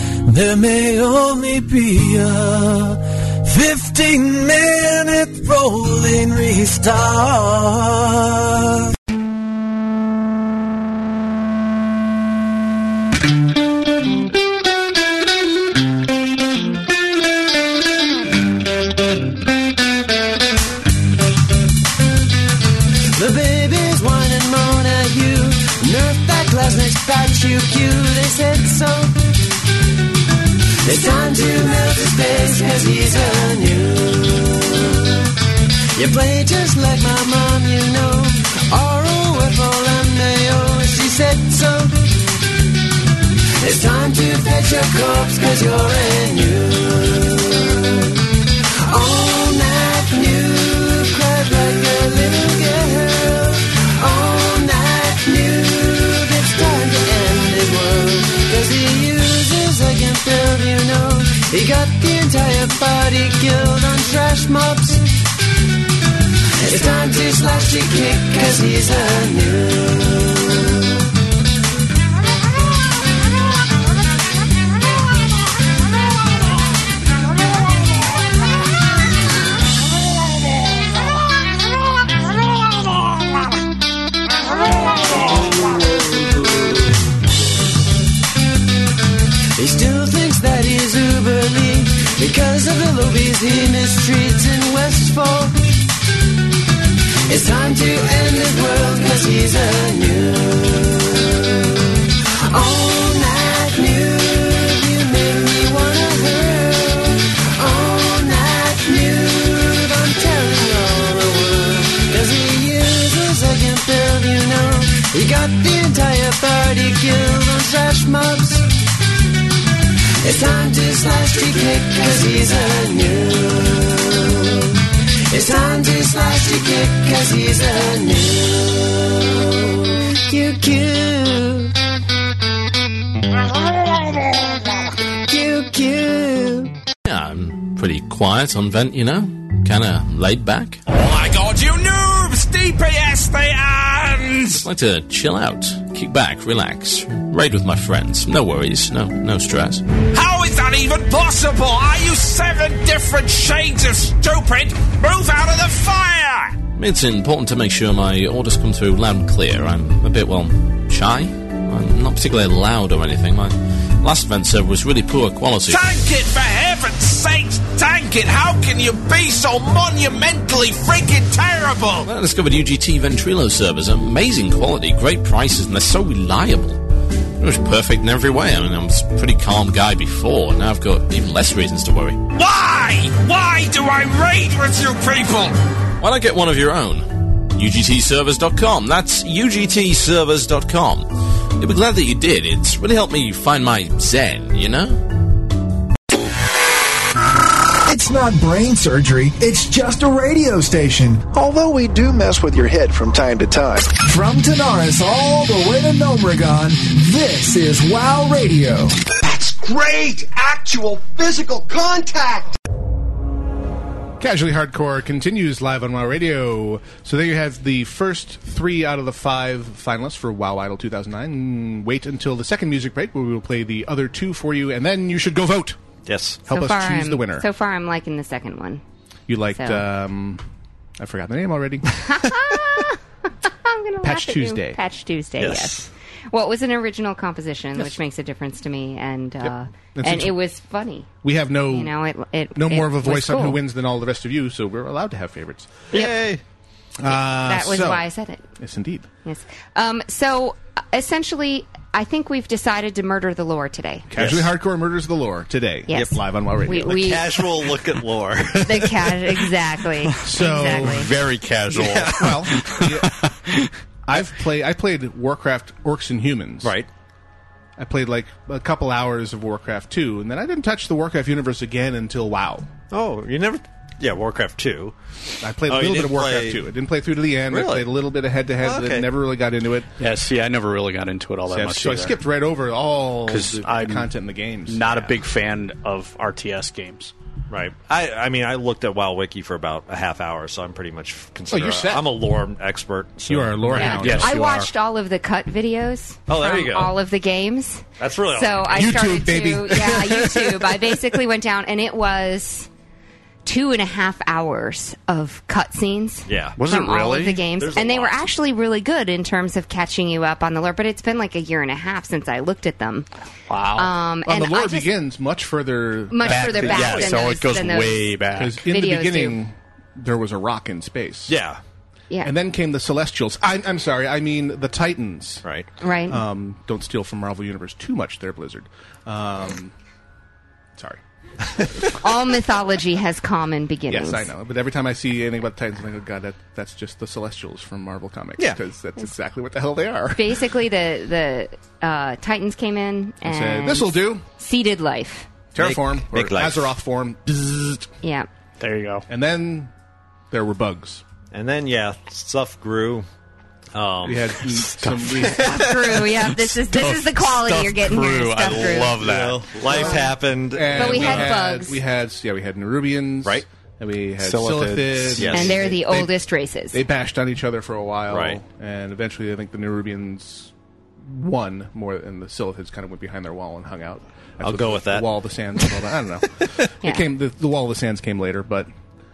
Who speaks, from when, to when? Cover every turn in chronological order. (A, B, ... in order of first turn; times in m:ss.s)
0:00.2-0:08.8 A
0:23.2-0:29.2 B
0:30.8-0:34.9 B
0:36.0-0:42.0 B
0:43.6-0:47.9 B
0:48.8-1:05.1 B
1:06.6-1:10.5 B
1:29.6-1:35.6 B
1:37.3-1:41.4 B
1:42.5-1:58.7 B
2:00.2-2:11.8 B
2:15.2-2:16.7 B
2:17.1-2:20.8 C
2:20.9-2:24.6 D
2:24.6-2:29.8 C
2:30.1-2:36.6 D
2:36.7-2:45.9 C
2:45.7-2:52.1 D
2:52.1-2:56.8 C
2:57.4-3:02.3 C
3:02.3-3:05.6 D
3:06.0-3:15.1 C
3:17.8-3:29.0 E
3:29.2-3:32.6 F
3:34.2-3:45.8 G
3:46.1-3:46.4 H
3:46.5-3:47.5 G
3:46.5-3:48.8 I
3:49.3-3:50.4 G
3:49.5-3:49.9 I
3:51.0-3:52.4 G
3:52.1-3:53.0 I
3:53.6-4:01.1 I
3:54.0-3:54.8 G
3:55.4-3:55.9 H
3:59.4-4:00.4 G
4:01.2-4:02.0 G
4:01.7-4:03.6 I
4:02.6-4:05.9 G
4:05.9-4:06.4 H
4:07.0-4:08.1 G
4:07.1-4:08.5 I
4:08.6-4:09.1 G
4:09.2-4:14.1 I
4:14.1-4:17.1 G
4:14.2-4:14.5 H
4:15.9-4:17.4 I
4:16.7-4:19.2 H
4:18.6-4:21.1 I
4:20.2-4:21.1 G
4:20.4-4:23.7 J
4:21.7-4:22.4 H
4:22.0-4:23.2 G
4:24.1-4:26.7 G
4:26.6-4:26.9 H
4:27.8-4:32.7 G
4:32.9-4:35.0 H
4:35.4-4:39.9 G
4:35.7-4:36.6 H
4:37.5-4:37.9 H
4:38.6-4:39.1 H
4:40.0-4:42.2 J
4:41.5-4:44.9 G
4:43.3-4:44.1 J
4:44.7-4:47.1 J
4:44.9-4:45.2 H
4:47.5-4:54.3 H
4:51.5-4:52.2 G
4:53.3-4:54.7 G
4:53.7-5:02.7 I
4:54.0-4:54.4 J
4:56.3-4:56.9 H
4:58.0-4:59.1 H
4:58.7-5:01.0 G
5:03.4-5:13.1 I
5:06.3-5:06.6 H
5:06.6-5:07.4 J
5:07.5-5:08.2 H
5:13.5-5:13.9 J
5:13.8-5:14.9 I
5:14.2-5:17.2 G
5:16.1-5:19.4 I
5:16.2-5:18.6 J
5:18.4-5:21.4 G
5:21.3-5:21.6 H
5:22.2-5:25.4 G
5:25.8-5:26.2 I
5:26.1-5:29.7 G
5:30.8-5:31.0 G
5:32.0-5:34.3 I
5:33.9-5:40.4 G
5:40.1-5:45.3 I
5:43.2-5:44.2 G
5:45.5-5:47.8 G
5:45.6-5:46.7 H
5:48.0-5:48.3 I
5:48.6-5:49.1 J
5:49.1-5:49.7 G
5:50.3-5:51.0 G
5:51.3-5:53.1 H
5:53.7-5:54.7 H
5:54.0-5:55.7 G
5:54.8-5:55.3 J
5:55.2-5:56.1 H
5:55.4-5:59.0 I
5:56.5-5:59.9 J
5:59.0-6:01.4 H
5:59.7-6:06.1 G
5:59.7-6:00.0 I
6:00.7-6:01.8 I
6:04.2-6:05.3 J
6:05.2-6:05.6 H
6:05.3-6:06.8 I
6:06.7-6:18.7 G
6:08.1-6:08.4 H
6:14.4-6:15.1 H